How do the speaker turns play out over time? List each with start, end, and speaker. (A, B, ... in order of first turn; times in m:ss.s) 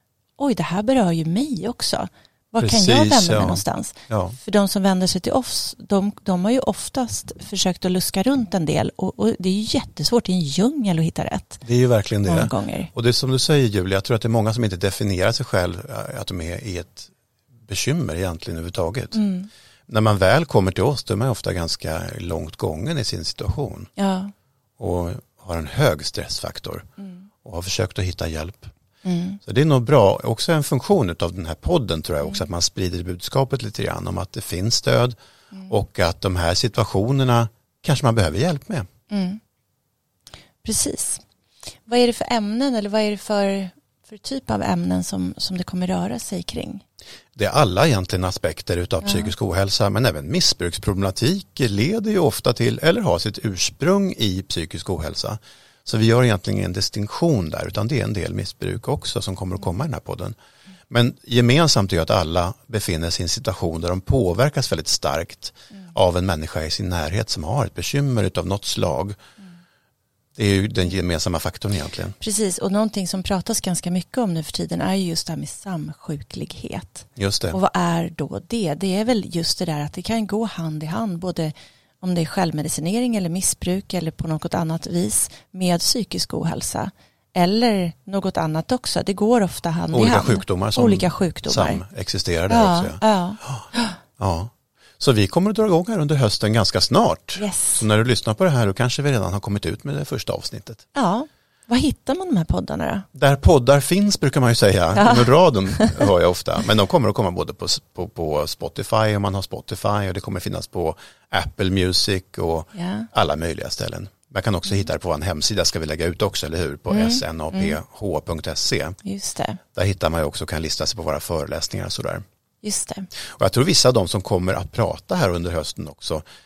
0:00.4-0:11.6 A
0:02.6-0:04.4 B
0:11.6-0:17.1 B
0:12.2-0:12.9 A
0:17.7-0:19.2 B
0:19.1-0:19.5 A
0:19.9-0:23.9 B
0:24.0-0:24.3 A
0:24.8-0:26.8 B
0:27.4-0:28.7 B
0:29.0-0:29.4 A
0:29.4-0:35.2 B
0:35.7-0:38.9 B
0:39.1-0:39.4 A
0:40.6-0:41.2 A
0:41.9-0:46.8 A
0:47.4-1:00.4 B
0:49.0-0:49.3 A
1:00.9-1:09.2 B
1:10.4-1:12.2 B
1:12.2-1:31.8 A
1:17.2-1:17.6 B
1:29.9-1:33.7 B
1:32.5-1:34.0 A
1:34.2-1:40.8 B
1:37.4-1:37.8 A
1:40.9-1:43.1 A
1:43.2-1:59.0 B
1:45.0-1:46.1 A
1:52.8-1:53.1 A
1:56.9-1:57.8 A
1:59.0-1:59.6 A
1:59.8-2:02.2 B
2:02.6-2:03.1 A
2:03.4-2:06.2 B